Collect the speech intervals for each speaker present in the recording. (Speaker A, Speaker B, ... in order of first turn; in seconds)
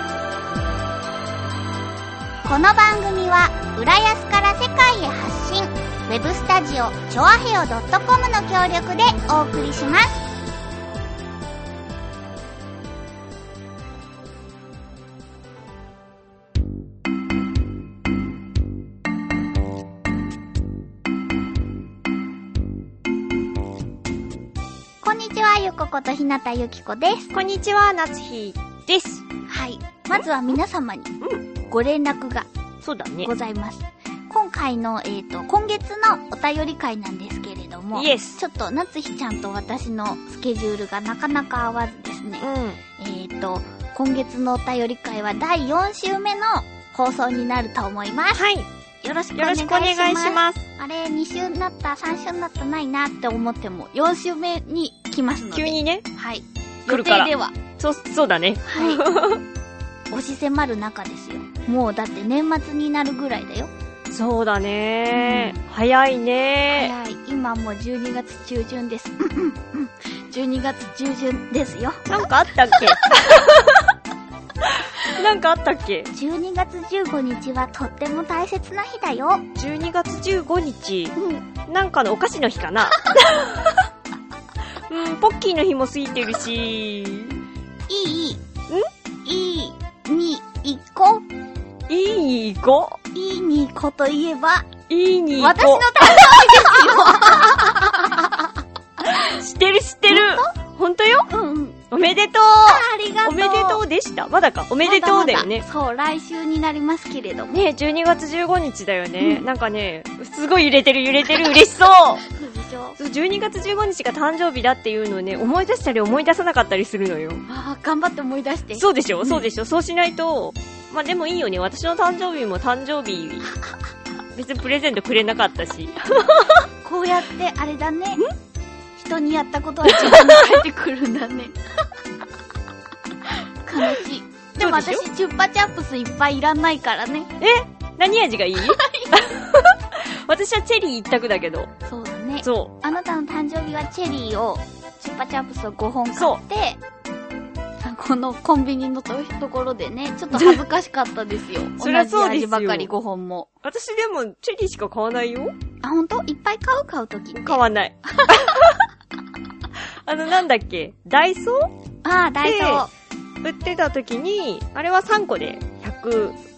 Speaker A: 2.5-10.2, 25.0-27.3, 29.5-31.1, 31.7-32.5, 33.2-48.4, 49.0-57.5, 58.6-59.0, 60.1-63.7, 65.1-65.6, 66.7-72.2, 76.1-79.5, 81.2-81.5, 87.9-88.4, 89.2-91.2, 93.1-94.7, 95.4-98.5, 100.1-100.5, 101.3-101.8, 102.7-103.8, 104.8-107.6, 109.2-109.4, 112.3-113.0, 117.5-119.5, 126.8-128.2, 129.0-131.6, 133.3-137.3, 138.6-139.1, 141.9-146.8, 147.8-153.5, 155.8-157.6, 162.0-162.9
Speaker B: 27.3-29.2, 30.1-30.5, 32.8-33.3, 37.9-38.4, 42.4-42.8, 48.3-48.7, 49.4-50.6, 55.5-56.1, 56.9-59.4, 64.1-66.9, 72.1-73.9, 74.6-76.1, 79.6-81.2, 81.7-83.8, 84.9-87.4, 91.9-93.0, 94.9-97.0, 99.1-101.3, 101.9-105.7, 107.5-112.2, 113.0-117.4, 118.8-123.5, 124.3-126.6, 129.9-130.6, 134.6-135.1, 137.4-141.7, 142.4-142.7, 146.2-146.4, 150.3-150.6, 151.8-152.9, 153.6-155.5, 157.3-158.8, 159.8-161.7, 162.4-162.9, 163.4-166.4